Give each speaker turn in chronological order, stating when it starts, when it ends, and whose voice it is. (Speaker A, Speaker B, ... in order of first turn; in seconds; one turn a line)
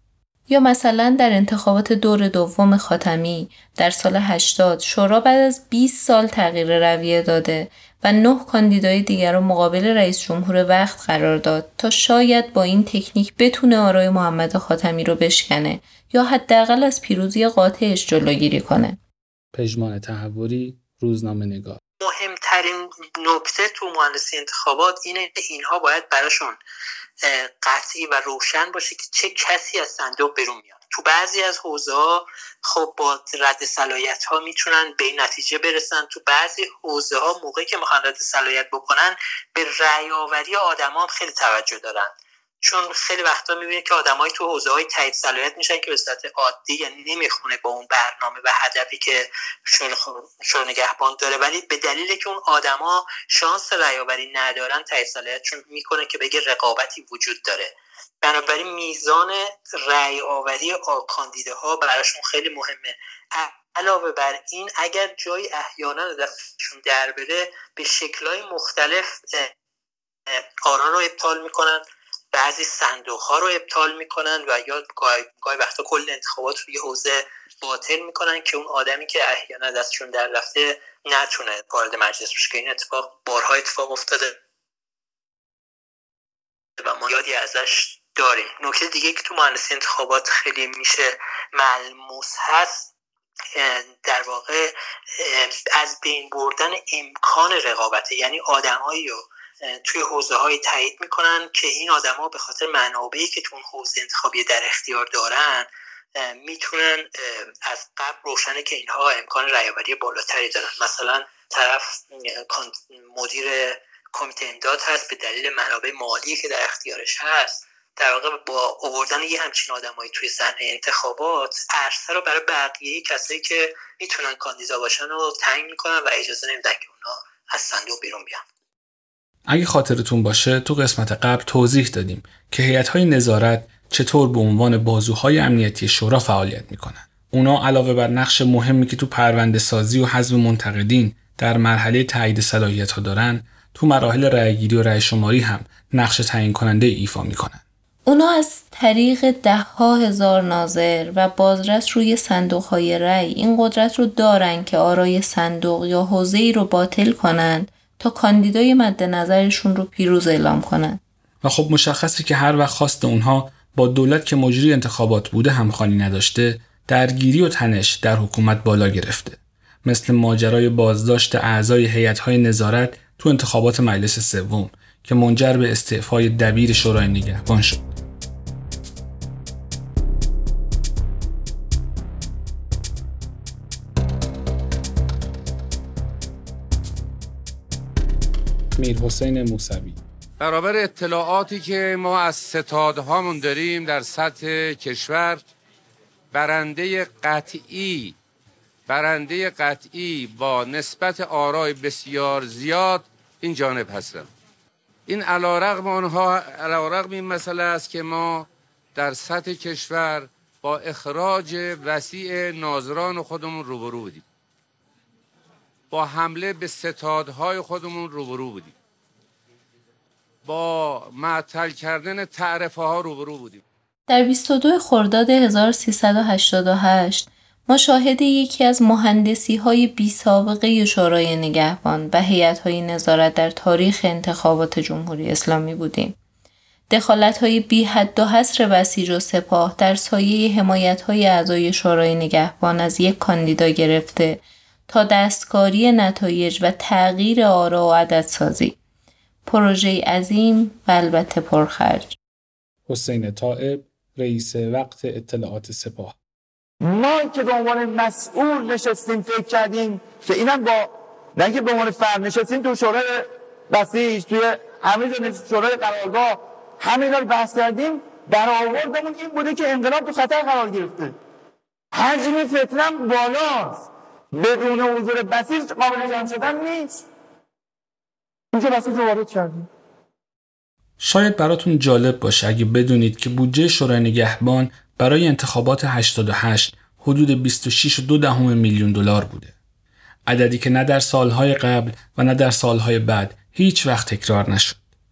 Speaker A: 0.5-19.0
Speaker B: 19.5-21.8
Speaker C: 22.0-26.6
Speaker C: 27.2-69.5
Speaker C: 70.3-71.8
Speaker C: 72.3-84.4
Speaker C: 86.8-92.9
Speaker C: 93.5-128.4
Speaker B: 129.5-147.6
Speaker A: 148.1-161.0
Speaker B: 161.4-178.0
Speaker B: 188.8-190.0
Speaker D: 190.4-195.5
Speaker D: 196.3-198.2
Speaker D: 198.9-204.3
Speaker D: 205.1-214.2
Speaker D: 215.9-218.8
Speaker D: 220.4-223.6
Speaker A: 224.1-236.2
Speaker A: 236.9-248.8
Speaker A: 249.5-252.1
Speaker B: 252.9-256.2
Speaker E: 256.8-271.1
Speaker E: 271.9-277.0
Speaker E: 278.5-279.7
Speaker B: 281.0-289.6
Speaker B: 290.3-294.8